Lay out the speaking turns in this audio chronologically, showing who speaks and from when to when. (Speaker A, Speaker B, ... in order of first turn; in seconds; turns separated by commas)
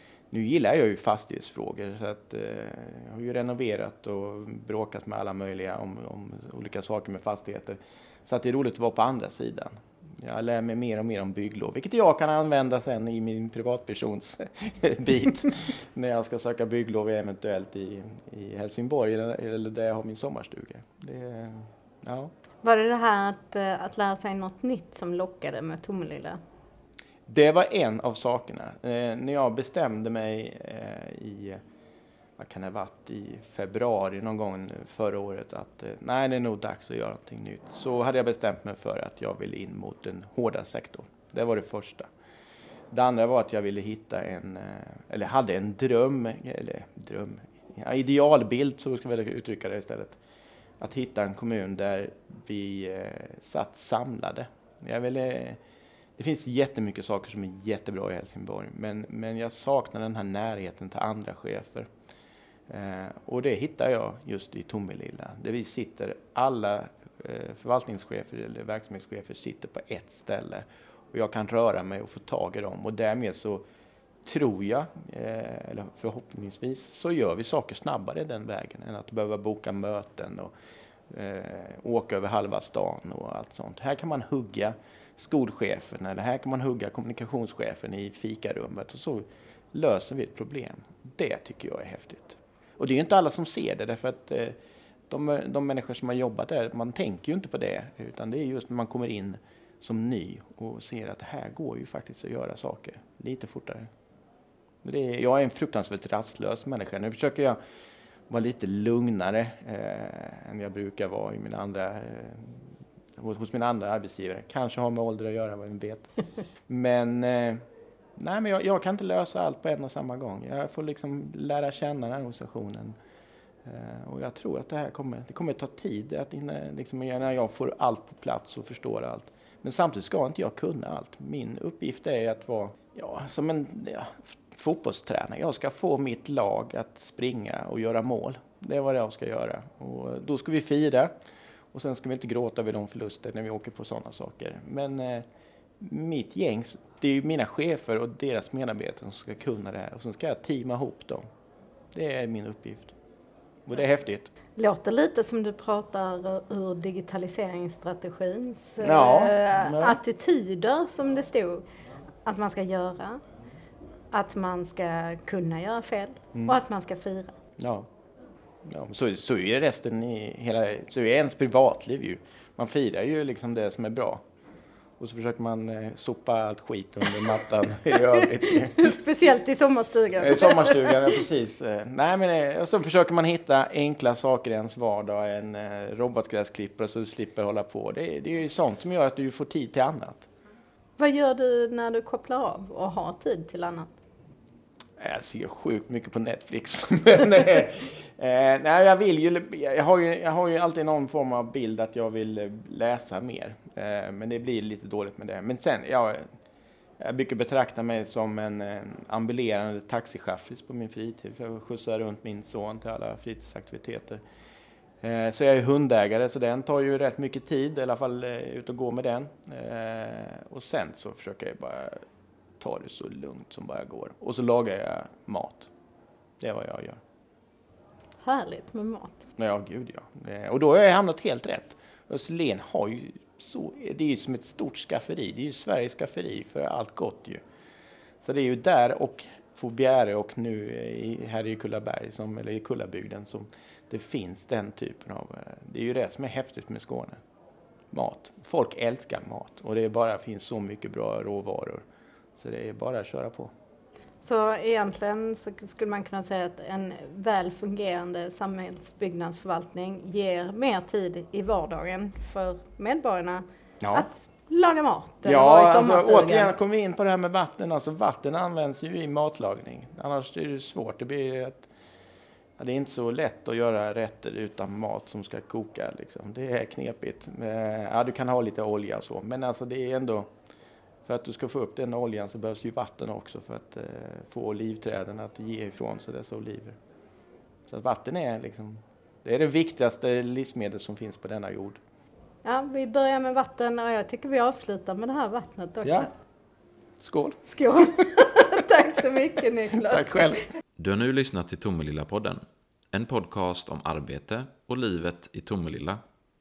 Speaker A: 0.3-22.3, Speaker B: 22.6-26.4, Speaker A: 27.3-31.6, Speaker A: 32.4-42.1, Speaker A: 42.9-50.2, Speaker A: 50.8-55.6, Speaker A: 56.2-61.9, Speaker A: 62.7-73.6, Speaker A: 74.2-80.5, Speaker A: 81.1-94.6, Speaker A: 95.1-103.9, Speaker A: 104.8-107.6, Speaker A: 108.3-112.6, Speaker A: 113.2-116.2, Speaker A: 116.7-117.6, Speaker A: 118.2-122.9, Speaker A: 123.6-141.1, Speaker A: 141.7-145.2, Speaker A: 145.8-151.2, Speaker A: 151.9-152.9, Speaker A: 153.7-154.3, Speaker B: 154.6-161.6, Speaker A: 158.8-160.0, Speaker B: 162.2-163.2, Speaker B: 164.1-167.3, Speaker A: 167.6-167.9, Speaker A: 168.7-174.2, Speaker A: 175.0-179.0, Speaker B: 178.2-181.2, Speaker A: 180.2-190.3, Speaker B: 191.0-194.0, Speaker A: 195.0-206.2, Speaker A: 207.0-214.2, Speaker A: 215.0-222.0, Speaker A: 222.6-225.7, Speaker A: 226.4-227.0, Speaker B: 228.2-229.3, Speaker A: 229.4-237.4, Speaker A: 238.2-247.2, Speaker A: 247.9-251.8, Speaker A: 252.4-253.5, Speaker B: 254.2-266.5, Speaker A: 263.8-264.1, Speaker A: 265.2-271.7, Speaker A: 272.6-280.3, Speaker A: 281.0-286.8, Speaker A: 287.7-291.8, Speaker B: 292.4-296.1, Speaker A: 295.8-296.1, Speaker A: 297.0-297.8, Speaker B: 297.5-300.4, Speaker A: 299.8-300.4, Speaker C: 300.8-302.4, Speaker C: 302.9-306.0